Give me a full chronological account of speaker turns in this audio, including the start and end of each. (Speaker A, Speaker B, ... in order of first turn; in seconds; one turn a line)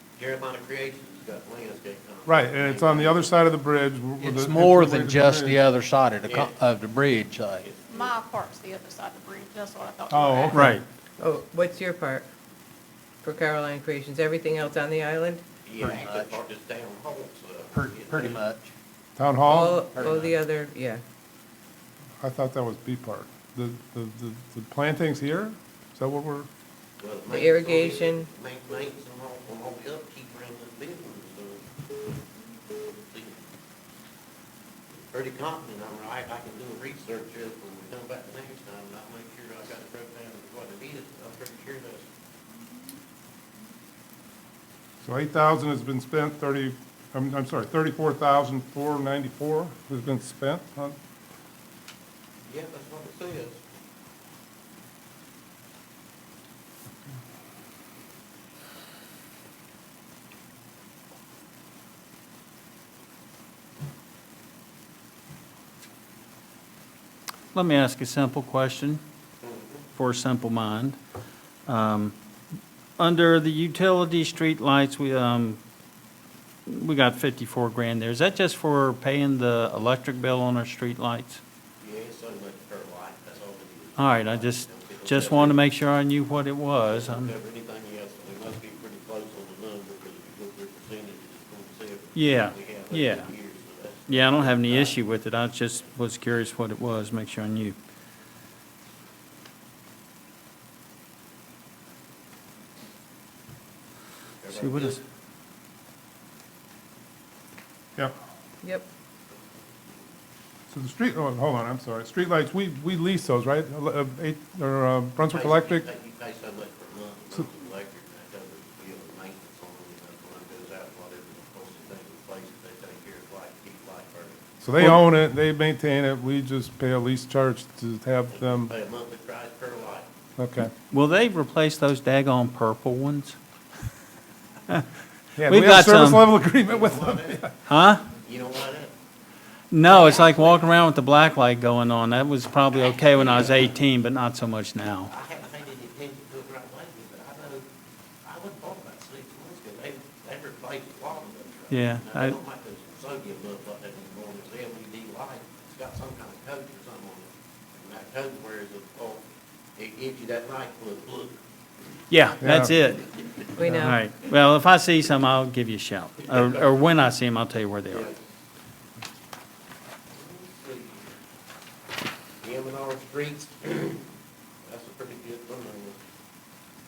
Speaker A: 0.2-3.3
Speaker B: 2.2-5.6
Speaker C: 4.2-7.7
Speaker A: 6.2-6.5
Speaker A: 7.6-8.2
Speaker D: 7.9-10.6
Speaker B: 10.1-10.8
Speaker E: 10.5-10.8
Speaker F: 11.2-12.3
Speaker F: 13.2-15.4
Speaker A: 15.7-18.4
Speaker C: 15.8-16.4
Speaker C: 17.7-18.7
Speaker B: 19.1-19.8
Speaker F: 19.4-21.0
Speaker C: 19.9-20.3
Speaker B: 22.2-26.5
Speaker A: 27.0-31.6
Speaker F: 27.3-28.3
Speaker A: 32.8-33.4
Speaker A: 35.1-42.1
Speaker B: 45.0-51.0
Speaker A: 52.4-53.6
Speaker E: 67.5-69.0
Speaker A: 69.4-69.8
Speaker E: 69.9-71.0
Speaker E: 71.7-72.1
Speaker E: 73.0-75.6
Speaker E: 76.7-81.4
Speaker A: 81.8-85.6
Speaker E: 84.0-87.3
Speaker A: 86.9-95.0
Speaker E: 92.1-93.3
Speaker E: 94.1-97.7
Speaker A: 104.4-105.0
Speaker E: 104.5-105.0
Speaker A: 109.3-110.1
Speaker B: 110.7-115.8
Speaker A: 115.3-124.4
Speaker B: 124.6-128.7
Speaker A: 128.3-130.1
Speaker B: 130.4-130.7
Speaker E: 130.9-133.3
Speaker B: 135.4-137.5
Speaker E: 135.4-136.2
Speaker A: 136.6-137.6
Speaker E: 137.7-138.0
Speaker A: 138.1-138.9
Speaker E: 139.7-145.1
Speaker A: 139.8-140.7
Speaker A: 143.2-143.7
Speaker A: 145.1-147.6
Speaker A: 148.2-159.2
Speaker E: 151.7-152.4
Speaker A: 159.8-161.4
Speaker E: 162.1-163.1
Speaker B: 162.4-162.7
Speaker F: 163.6-164.0
Speaker E: 163.7-168.1
Speaker A: 167.9-168.2
Speaker A: 170.1-171.1
Speaker A: 172.4-174.0
Speaker A: 174.6-176.0